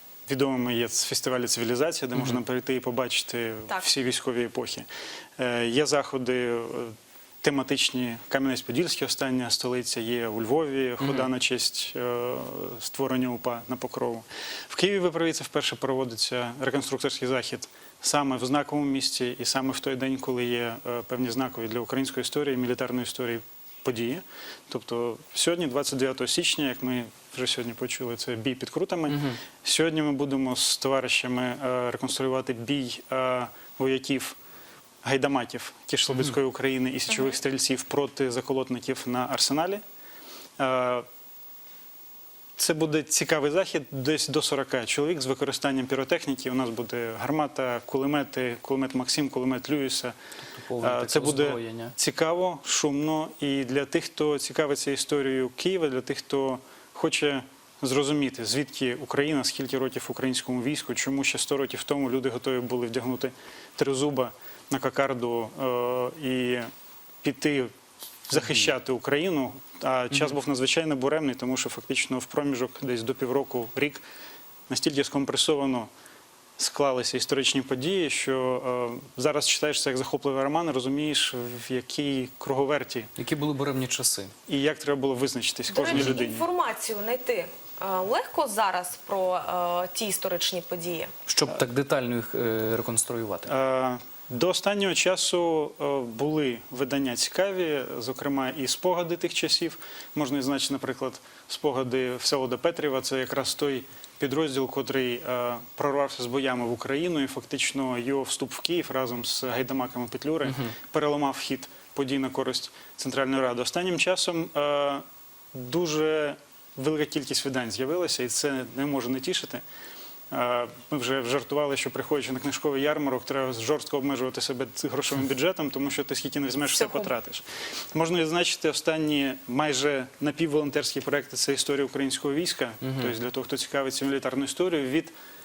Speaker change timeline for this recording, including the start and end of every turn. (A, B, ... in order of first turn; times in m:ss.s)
0:00.2-0:04.9 A
0:05.4-0:34.4 A
0:11.0-0:11.3 B
0:29.1-0:29.4 B
0:35.0-0:39.8 A
0:37.1-0:37.4 C
0:40.6-0:41.0 A
0:42.6-0:50.1 A
0:50.5-0:51.9 B
0:50.8-1:06.7 A
1:07.2-1:07.7 A
1:08.3-1:14.0 A
1:14.7-1:15.9 A
1:16.6-1:23.1 A
1:23.2-1:24.3 B
1:24.5-1:26.4 A
1:25.7-1:31.1 C
1:25.9-1:26.2 B
1:31.3-1:33.5 B
1:33.4-1:59.6 A
2:00.3-2:15.1 A
2:06.6-2:07.1 C